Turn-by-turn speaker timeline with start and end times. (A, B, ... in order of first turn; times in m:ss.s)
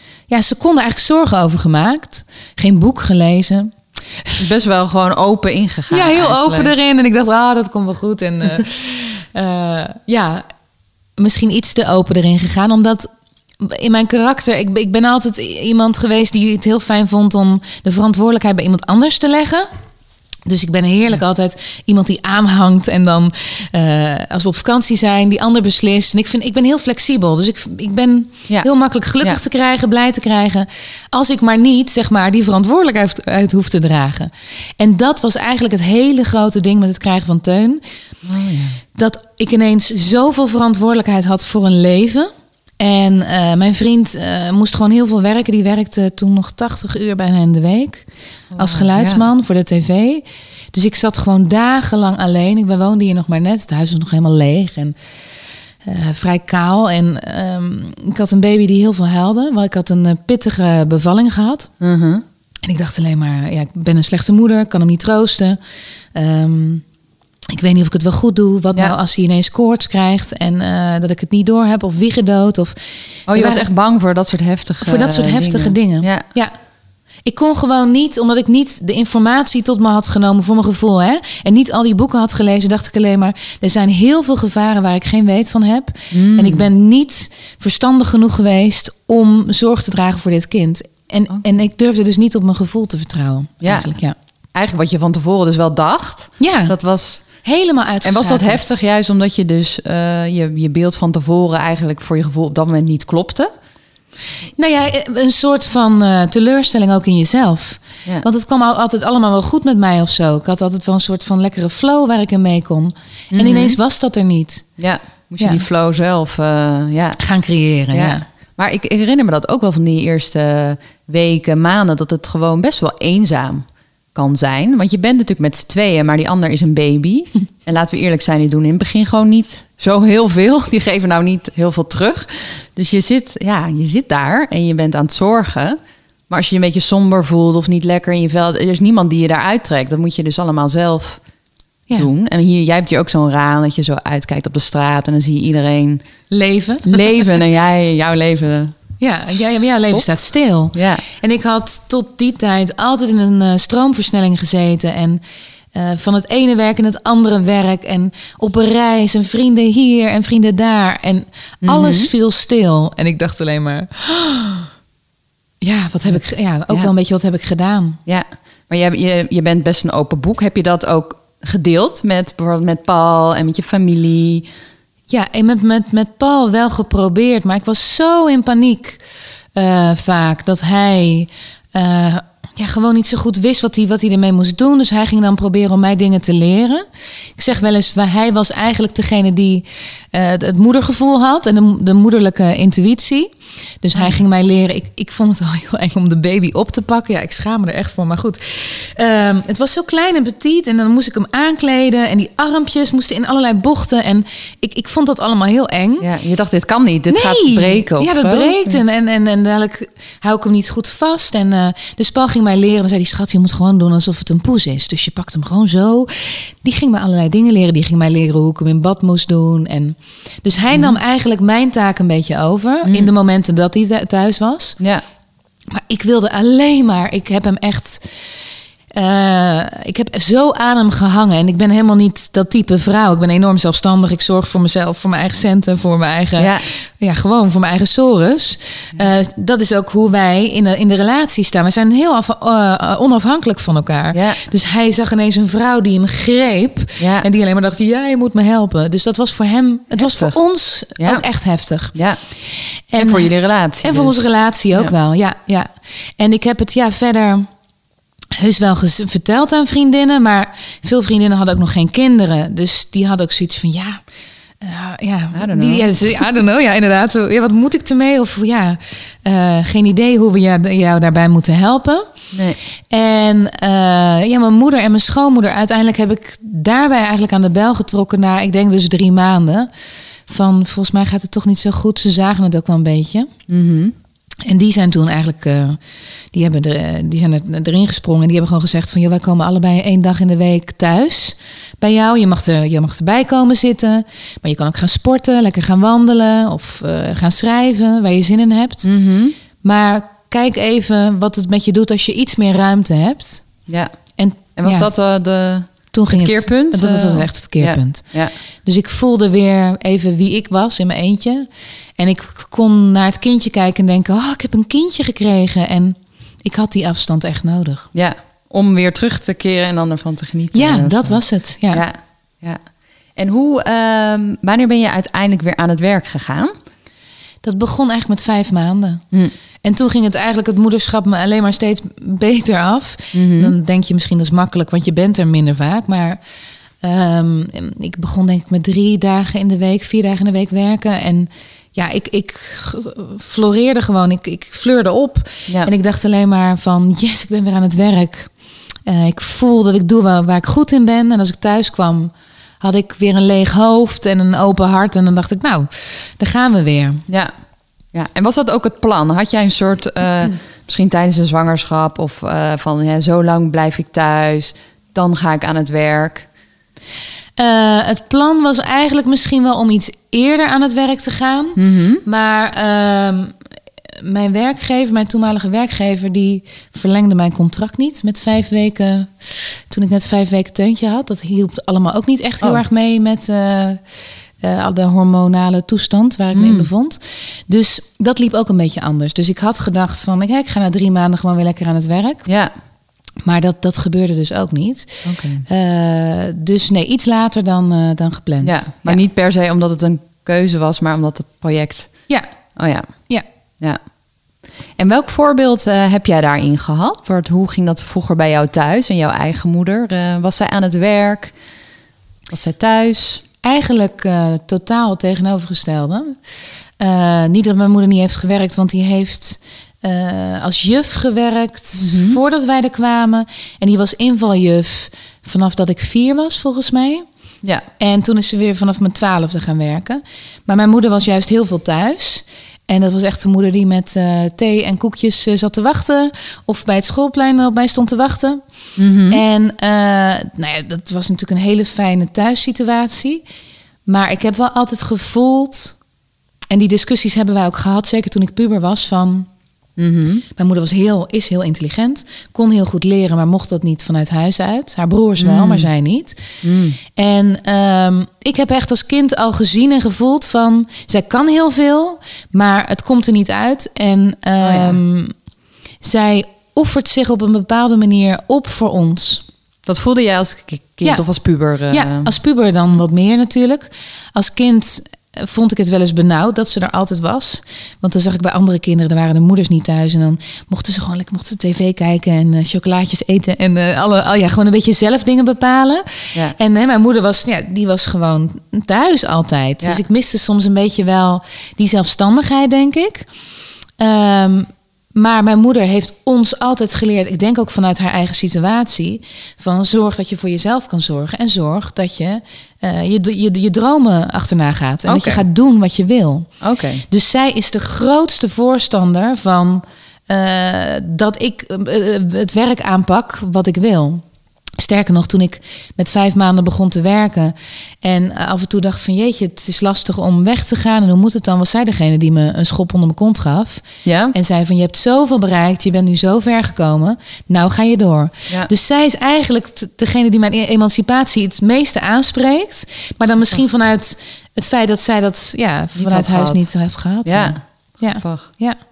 0:00.3-0:04.4 A
0:04.4-0:06.7 B
0:05.9-0:10.4 A
0:11.2-0:13.1 A
0:13.6-0:19.7 A
0:20.5-0:37.8 A
0:38.2-0:38.8 B
0:39.0-0:55.0 A
0:48.6-0:49.2 B
0:55.8-1:01.7 A
1:01.8-1:02.2 B
1:02.6-1:05.6 A
1:06.2-1:06.8 A
1:07.5-1:12.8 A
1:13.3-1:16.2 B
1:13.3-1:13.6 A
1:14.8-1:16.5 A
1:17.2-1:34.2 A
1:26.1-1:26.7 B
1:33.6-1:33.9 B
1:34.5-1:37.3 B
1:36.4-1:36.8 A
1:37.3-1:38.8 A
1:38.0-1:43.5 B
1:44.6-1:54.7 A
1:53.3-1:53.8 B
1:54.8-1:57.2 B
1:57.2-1:58.2 A
1:57.9-2:15.8 B
2:16.3-2:21.2 B
2:22.0-2:26.1 B
2:26.3-2:27.3 A
2:26.9-2:28.8 B
2:29.0-2:35.2 A
2:30.8-2:31.0 B
2:35.7-2:44.7 A
2:41.6-2:42.1 B
2:45.6-2:48.0 A
2:48.1-2:54.5 B
2:55.1-2:59.0 A
2:59.6-3:06.8 A
3:07.4-3:13.3 A
3:13.8-3:26.1 A
3:26.0-3:28.8 B
3:27.1-3:44.8 A
3:40.7-3:41.0 B
3:42.8-3:43.1 B
3:44.8-3:45.0 B
3:45.7-3:48.3 A
3:48.9-4:17.5 A
3:56.4-3:56.6 B
4:04.1-4:04.4 B
4:07.0-4:07.3 B
4:10.0-4:10.4 B
4:11.0-4:11.2 B
4:11.9-4:12.2 B
4:13.0-4:14.9 B
4:18.4-4:24.0 A
4:24.6-4:32.1 A
4:25.3-4:25.9 B
4:32.3-4:32.6 B
4:32.9-4:39.7 A
4:40.3-4:43.3 A
4:43.5-4:43.9 B
4:44.4-4:45.8 A
4:46.3-4:58.9 A
4:58.8-4:59.4 B
4:59.6-5:03.5 A
5:03.7-5:03.9 B
5:04.2-5:04.9 A
5:04.6-5:08.3 B
5:05.9-5:08.1 A
5:08.6-5:11.5 A
5:12.0-5:17.9 A
5:17.9-5:22.6 B
5:20.5-5:21.8 A
5:23.2-5:26.5 B
5:27.4-5:29.0 A
5:29.6-5:36.2 A
5:33.1-5:33.5 B
5:36.8-5:48.3 A
5:48.9-5:57.0 A
5:57.9-6:06.3 B
6:07.4-6:13.4 A
6:11.6-6:12.0 B
6:14.0-6:23.8 A
6:24.4-6:32.3 A
6:26.3-6:26.7 B
6:32.3-6:32.5 B
6:33.2-6:39.0 A
6:35.0-6:35.4 B
6:38.4-6:42.9 B
6:44.8-6:51.3 B
6:52.3-6:53.2 B
6:53.4-6:56.2 A
6:56.8-7:07.0 A
7:01.8-7:02.2 B
7:07.8-7:18.4 A
7:18.8-7:19.2 B
7:19.1-7:23.2 A
7:23.9-7:25.8 A
7:26.5-7:29.3 A
7:29.8-7:30.2 B
7:30.4-7:36.4 A
7:35.2-7:35.7 B
7:36.4-7:36.8 B
7:37.0-7:45.1 A
7:44.4-7:44.8 B
7:45.8-7:49.2 A
7:49.7-7:52.1 B
7:51.7-8:13.1 A
8:13.8-8:26.3 A
8:24.9-8:25.2 B
8:26.4-8:26.8 B
8:26.9-8:34.0 A
8:34.6-8:58.6 A
8:43.8-8:44.2 B
8:55.8-8:56.5 B
8:57.0-8:57.4 B
8:58.0-8:58.3 B